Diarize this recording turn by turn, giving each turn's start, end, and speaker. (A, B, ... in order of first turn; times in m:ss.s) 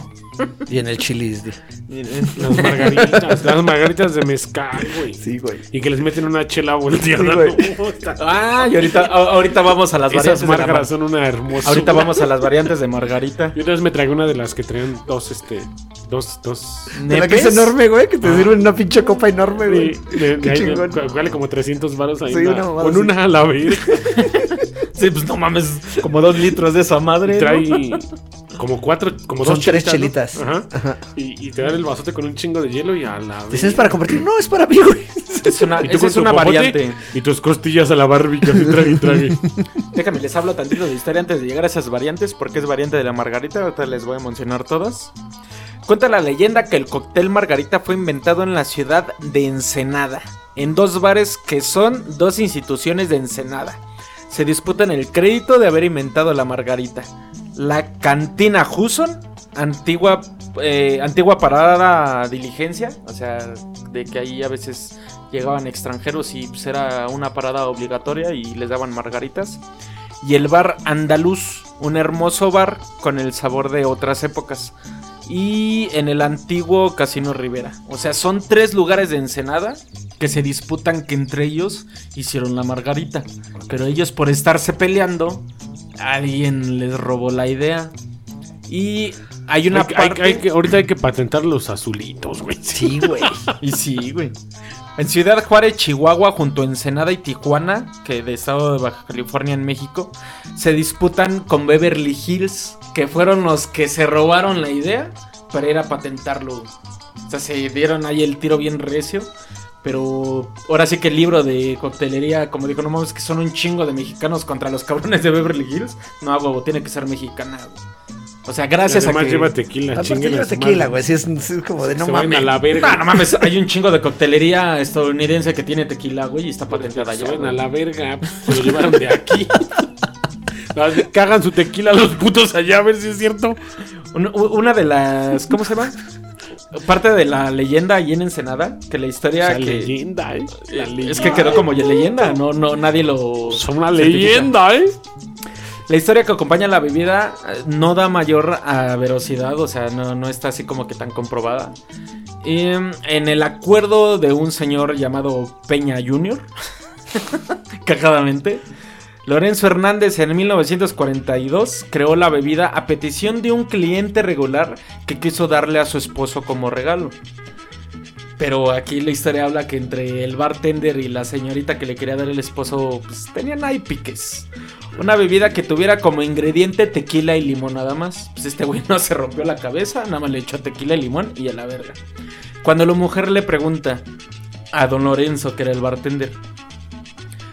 0:00.7-0:01.6 A
0:01.9-0:03.0 B
0:02.4-0:08.3 C
0:02.5-0:03.5 A
0:05.1-0:05.6 A
0:07.1-0:07.7 A
0:08.2-0:10.9 B
0:10.1-0:12.2 C
0:11.6-0:13.6 B
0:13.6-0:17.0 C
0:16.9-0:17.8 B
0:17.1-0:21.0 A
0:18.2-0:18.6 C
0:19.7-0:24.2 C
0:22.3-0:23.1 A
0:24.1-0:28.0 B
0:27.2-0:34.1 C
0:29.4-0:31.0 A
0:33.5-0:35.7 A
0:35.4-0:37.0 B
0:35.8-0:39.4 C
0:38.6-0:39.3 A
0:39.9-0:45.1 B
0:45.9-1:09.6 B
1:10.2-1:14.8 B
1:15.3-1:25.5 B
1:26.0-1:27.9 B
1:28.7-1:30.4 B
1:29.7-1:33.5 C
1:32.7-1:33.4 A
1:33.6-1:34.4 B
1:35.0-1:46.8 B
1:47.3-1:49.3 B
1:49.8-1:57.8 B
1:58.5-1:59.5 B
1:58.9-2:01.0 C
2:00.0-2:02.5 A
2:02.0-2:03.2 C
2:02.8-2:07.6 B
2:06.7-2:09.6 C
2:10.8-2:13.6 C
2:14.1-2:16.0 B
2:16.7-2:19.9 B
2:19.4-2:21.7 C
2:20.7-2:24.5 B
2:21.3-2:21.6 A
2:23.5-2:25.0 C
2:25.9-2:31.8 B
2:32.4-2:36.5 B
2:37.2-2:38.6 B
2:39.3-2:47.2 B
2:48.4-3:02.0 B
3:02.6-3:04.0 B
3:04.7-3:06.4 B